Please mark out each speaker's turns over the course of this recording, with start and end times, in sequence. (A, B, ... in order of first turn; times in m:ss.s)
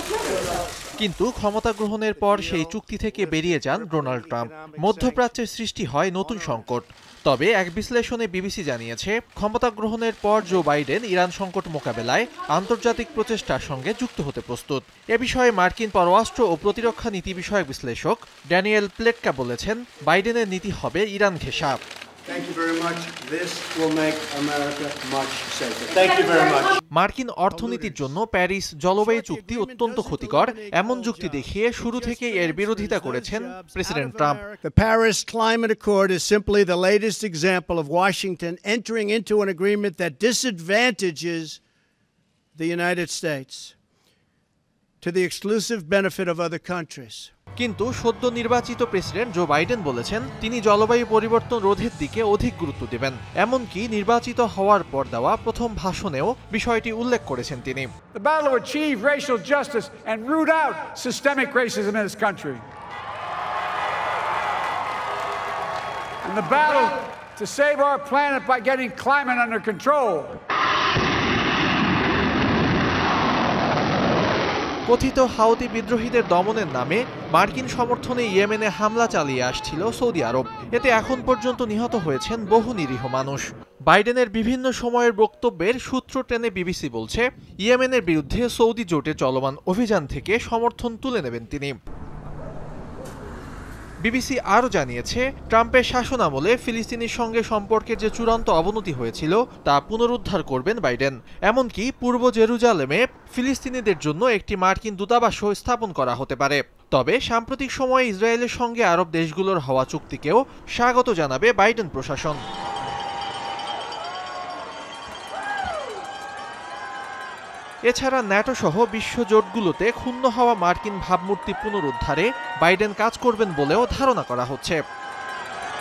0:00.3-0:00.7 A
0:01.0-0:21.8 B
0:02.5-0:05.4 A
0:06.2-0:06.7 A
0:22.3-0:26.8 A
0:27.0-0:34.4 B
0:27.5-0:28.2 A
0:29.0-0:41.6 A
0:42.6-0:43.8 A
0:45.0-0:47.3 A
0:47.6-0:57.9 B
0:58.1-1:02.6 C
1:06.2-1:10.4 C
1:14.9-1:31.7 B
1:34.1-1:52.4 B
1:57.9-2:04.8 B